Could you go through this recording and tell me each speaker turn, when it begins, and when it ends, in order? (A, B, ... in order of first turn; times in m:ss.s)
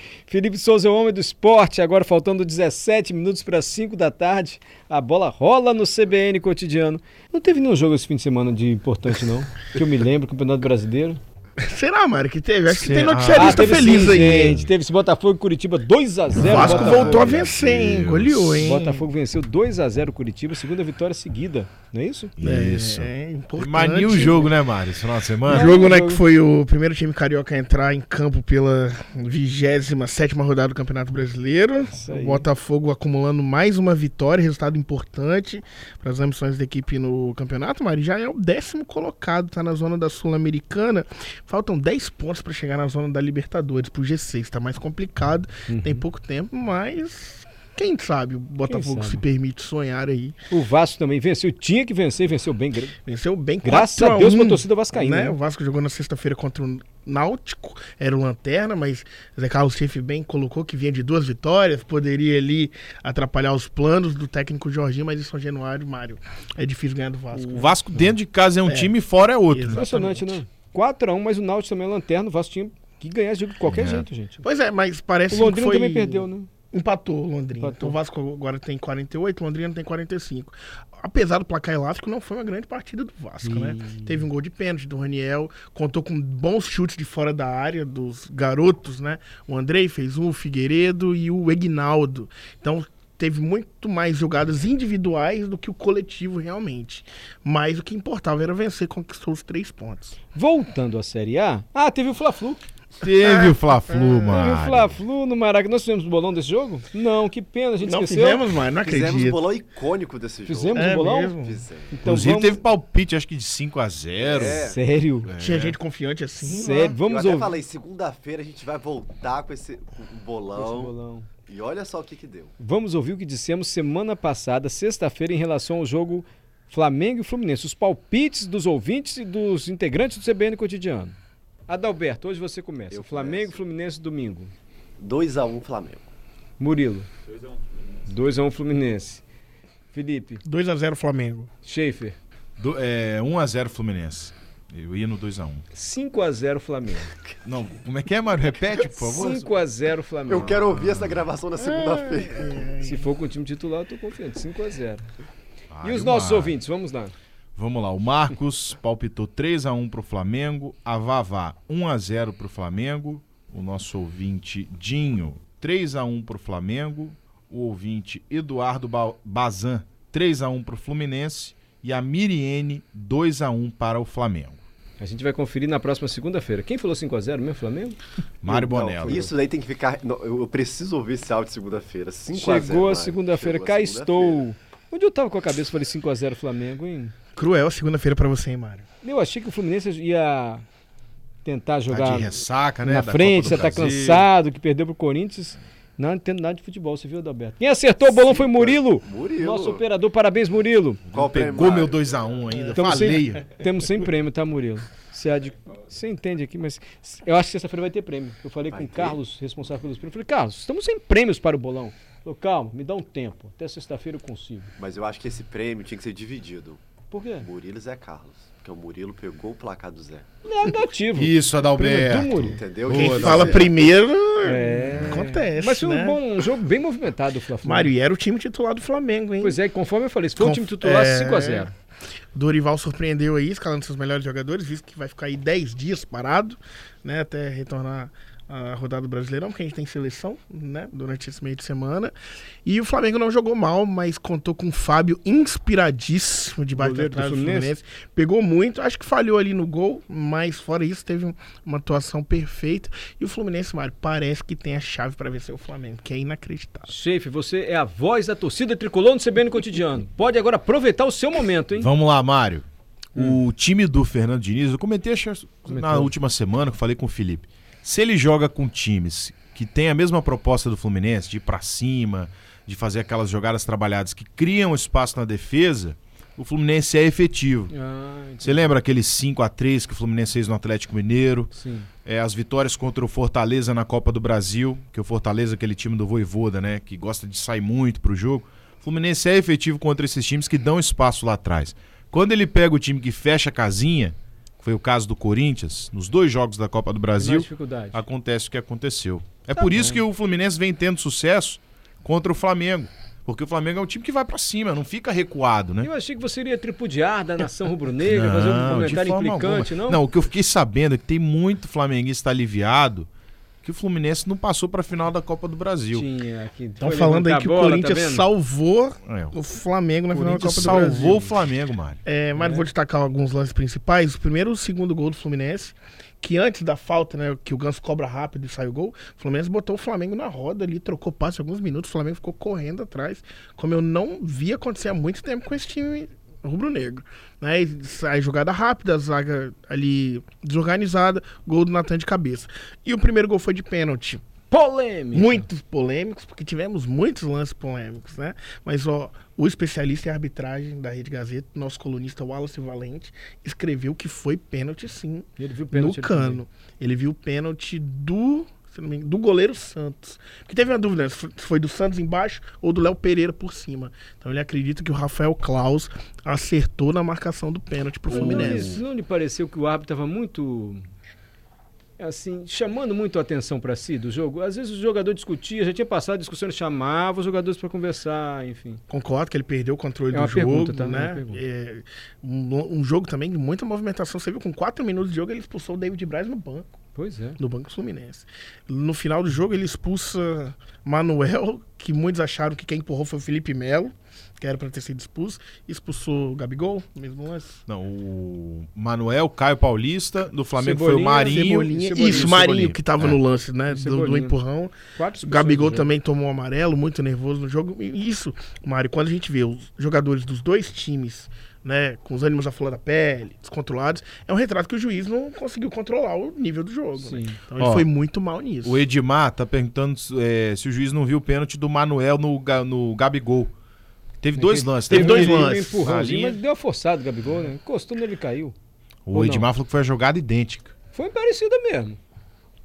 0:00.3-0:11.2 A
0:11.6-0:14.7 B
0:12.7-0:14.1 C
0:13.3-0:17.3 A
0:16.4-0:18.6 C
0:16.4-0:19.1 B
0:18.6-0:22.3 A
0:22.4-0:25.8 C
0:22.4-0:24.5 B
0:25.5-0:26.2 A
0:25.5-0:50.4 B
0:31.9-0:32.4 A
0:45.7-0:46.0 A
0:48.7-0:49.2 A
0:50.5-0:53.0 A
0:53.0-1:07.8 B
0:53.6-0:55.4 A
1:07.3-1:09.8 C
1:08.7-1:08.9 B
1:09.5-1:10.4 B
1:09.7-1:14.4 A
1:13.6-1:14.1 C
1:14.4-1:40.2 B
1:15.3-1:16.5 A
1:17.6-1:18.0 A
1:23.4-1:24.2 A
1:40.3-1:42.6 A
1:43.0-1:45.0 C
1:43.2-1:44.4 B
1:44.3-1:48.4 A
1:47.8-1:49.5 B
1:48.8-1:52.0 D
1:50.5-1:52.6 A
1:50.7-1:51.6 B
1:52.0-1:54.7 C
1:54.2-1:54.8 D
1:54.5-1:55.3 A
1:55.2-1:55.8 C
1:55.4-1:57.0 B
1:56.5-1:57.5 A
1:56.6-2:00.9 D
2:00.6-2:01.3 A
2:01.5-2:02.5 D
2:02.6-2:11.2 A
2:11.7-2:14.5 A
2:12.9-2:13.6 D
2:15.0-2:16.1 D
2:16.6-2:17.1 A
2:18.0-2:19.2 A
2:19.9-2:20.4 A
2:20.4-2:21.5 B
2:21.6-2:22.2 A
2:22.6-2:25.6 C
2:25.7-2:27.1 A
2:27.4-2:29.5 C
2:29.0-2:30.6 A
2:30.3-2:32.6 D
2:30.5-2:31.2 C
2:31.6-2:33.1 B
2:32.8-2:35.0 A
2:35.7-2:36.6 C
2:35.8-2:37.1 A
2:37.6-2:54.6 C
2:55.0-2:58.0 A
2:58.4-2:59.3 C
2:58.4-3:04.4 D
2:59.0-2:59.3 A
3:02.3-3:07.1 A
3:07.4-3:08.9 B
3:09.0-3:10.6 A
3:11.4-3:21.0 A
3:11.9-3:14.3 C
3:18.1-3:19.8 D
3:21.1-3:22.1 D
3:21.1-3:23.5 C
3:22.7-3:34.7 A
3:28.7-3:29.2 D
3:34.8-3:36.8 D
3:37.1-3:37.5 A
3:37.4-3:40.3 D
3:40.4-3:42.6 A
3:41.2-3:43.7 C
3:42.4-3:43.9 D
3:42.9-3:46.2 B
3:44.4-3:47.9 A
3:44.9-3:45.2 C
3:47.6-3:49.6 B
3:49.4-3:51.7 A
3:50.4-3:51.7 B
3:52.3-4:02.1 B
4:02.6-4:16.9 B
4:06.8-4:07.7 A
4:16.9-4:21.9 A
4:21.8-4:37.7 C
4:25.7-4:26.1 A
4:37.7-4:38.7 A
4:38.4-4:41.5 C
4:41.5-4:41.9 A
4:42.0-5:05.9 C
4:57.2-4:58.0 A
4:59.5-5:00.0 A
5:05.8-5:10.0 A
5:08.0-5:13.1 C
5:13.6-5:16.1 C
5:15.9-5:18.3 A
5:16.8-5:21.4 B
5:19.1-5:19.4 C
5:20.1-5:21.2 A
5:20.2-5:22.0 C
5:22.0-5:44.2 B
5:22.4-5:22.7 A
5:44.5-5:45.4 A
5:45.1-6:08.8 B
5:55.4-5:56.4 A
6:08.1-6:10.9 A
6:08.1-6:08.8 C
6:12.0-6:18.8 A
6:18.9-6:26.7 B
6:20.1-6:21.4 A
6:27.0-6:27.4 A
6:27.4-6:37.6 B
6:37.7-6:43.2 C
6:40.6-6:42.7 A
6:41.2-6:58.8 B
6:43.7-6:44.4 A
6:45.0-6:45.9 A
6:57.0-6:57.4 A
6:57.6-6:57.9 C
6:58.6-7:03.5 C
7:04.2-7:06.4 C
7:04.4-7:08.5 A
7:04.9-7:05.8 B
7:09.1-7:10.7 C
7:09.1-7:09.5 A
7:10.9-7:12.0 A